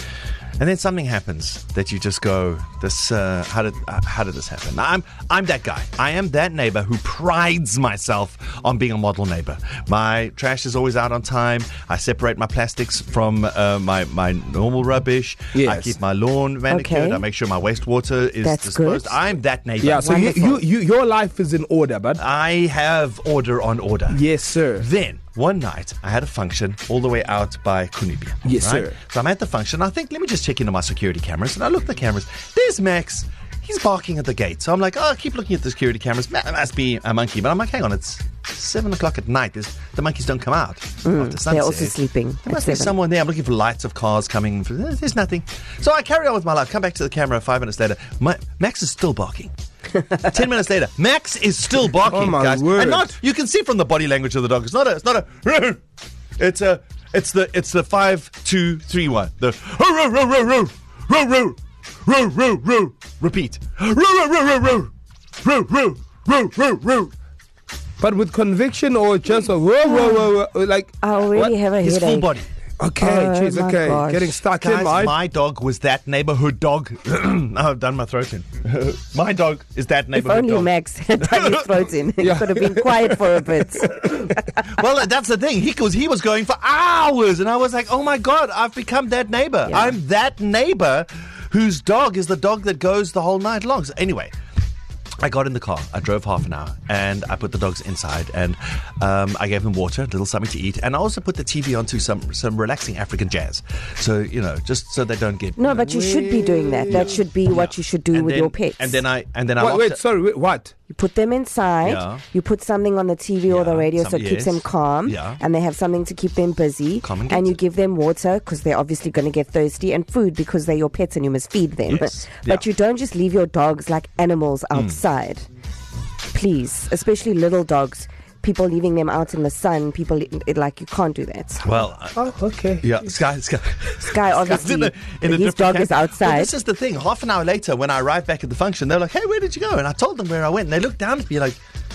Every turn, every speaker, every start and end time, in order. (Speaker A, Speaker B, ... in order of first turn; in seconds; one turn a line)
Speaker A: 0.6-20.6
Speaker B: 15.5-16.0
Speaker C: 16.7-17.2
Speaker C: 18.4-19.2
Speaker B: 19.8-22.2
Speaker C: 20.0-20.5
Speaker A: 22.2-24.2
Speaker B: 24.1-24.9
Speaker A: 24.8-49.5
Speaker B: 28.4-29.0
Speaker C: 41.0-43.0
Speaker A: 50.2-55.8
Speaker B: 52.0-53.1
Speaker A: 56.4-64.9
Speaker A: 65.4-67.1
Speaker B: 68.0-71.5
Speaker C: 69.9-70.3
Speaker C: 71.0-72.3
Speaker A: 71.7-72.5
Speaker B: 72.8-75.2
Speaker C: 73.0-74.4
Speaker A: 74.5-80.7
Speaker C: 80.2-84.3
Speaker A: 81.2-81.9
Speaker B: 82.2-83.5
Speaker A: 83.9-94.3
Speaker C: 89.7-90.0
Speaker A: 95.2-105.8
Speaker C: 105.6-109.0
Speaker B: 105.7-107.2
Speaker A: 106.9-110.0
Speaker B: 109.6-110.7
Speaker C: 110.9-125.5
Speaker A: 111.8-112.2
Speaker A: 113.5-115.4
Speaker A: 117.0-117.6
Speaker A: 121.9-122.7
Speaker A: 124.7-125.0
Speaker C: 126.3-131.7
Speaker A: 131.6-132.2
Speaker B: 132.2-132.9
Speaker A: 132.8-141.6
Speaker C: 134.1-136.5